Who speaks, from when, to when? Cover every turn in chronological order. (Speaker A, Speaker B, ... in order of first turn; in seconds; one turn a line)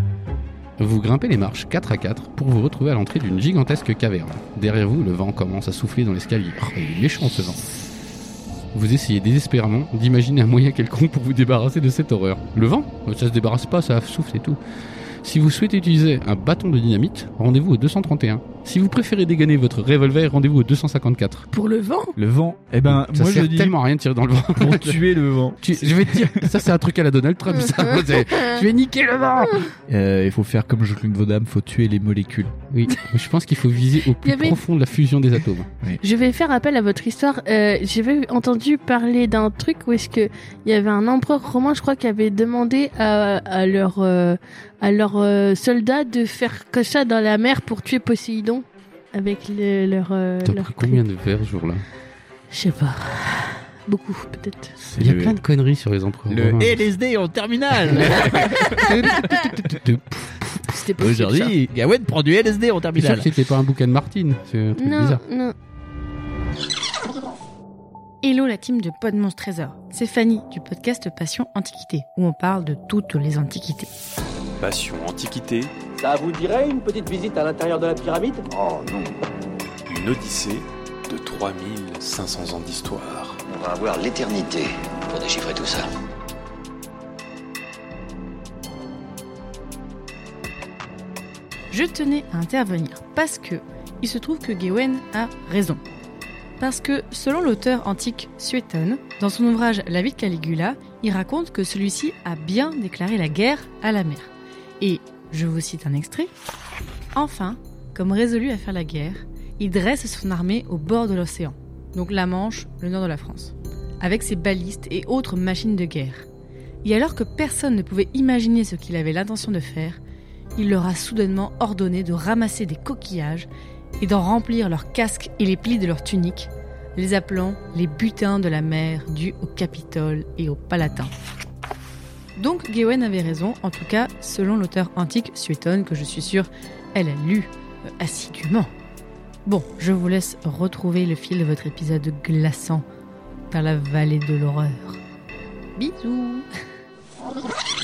Speaker A: 0.8-7.7
Speaker A: 8.7-14.6
Speaker A: 15.2-21.5
Speaker B: 21.5-22.1
Speaker C: 22.2-23.8
Speaker A: 22.9-25.0
Speaker C: 24.6-26.5
Speaker A: 25.6-29.7
Speaker B: 27.5-28.6
Speaker C: 29.9-32.5
Speaker A: 32.7-35.7
Speaker B: 34.2-34.6
Speaker B: 36.0-51.0
Speaker A: 50.4-51.8
Speaker B: 52.5-54.7
Speaker C: 54.8-55.4
Speaker A: 55.0-56.8
Speaker C: 56.3-58.9
Speaker A: 57.9-60.6
Speaker B: 58.3-59.3
Speaker B: 60.7-61.5
Speaker C: 61.0-63.3
Speaker A: 62.9-65.2
Speaker B: 64.8-65.5
Speaker D: 68.2-73.9
Speaker E: 74.6-75.7
Speaker F: 76.0-78.5
Speaker G: 78.5-79.2
Speaker E: 79.9-83.2
Speaker G: 83.3-85.9
Speaker D: 91.7-95.8
Speaker D: 96.6-104.3
Speaker D: 104.8-106.3
Speaker D: 107.1-116.2
Speaker D: 116.8-120.0
Speaker D: 120.5-123.5
Speaker D: 124.0-131.1
Speaker D: 132.3-138.7
Speaker D: 139.4-142.8
Speaker D: 143.5-145.0
Speaker D: 145.8-146.5